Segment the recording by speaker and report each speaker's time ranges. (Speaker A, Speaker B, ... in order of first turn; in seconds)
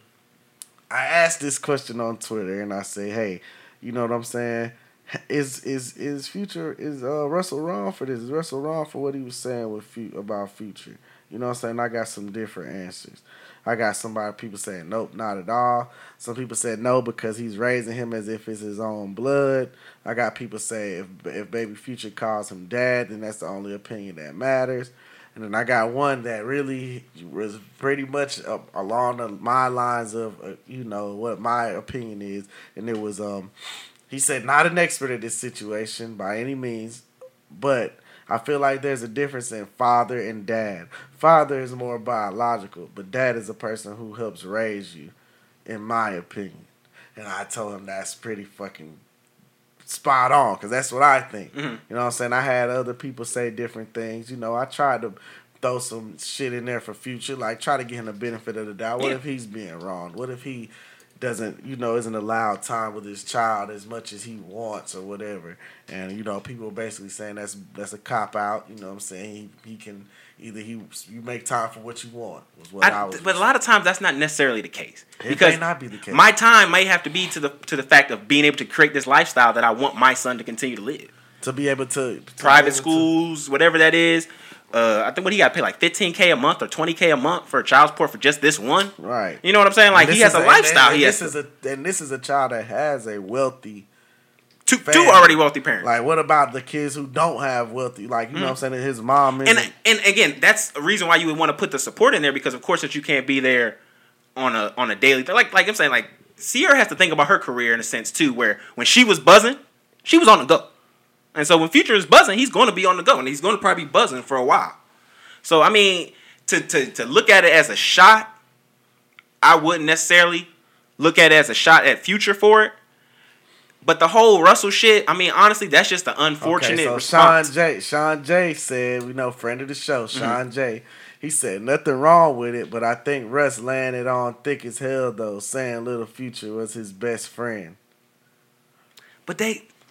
Speaker A: 0.9-33.5, 34.1-45.1, 45.6-49.0, 49.8-73.4, 75.2-76.2, 81.4-83.1, 89.0-93.9, 94.8-99.7, 126.4-137.8
Speaker B: 51.5-51.8, 72.8-81.1, 82.4-91.3, 94.7-95.9, 99.4-103.8, 104.3-110.7, 111.3-114.8, 115.4-118.3, 119.4-122.7, 123.8-127.5, 130.1-130.4, 139.2-139.6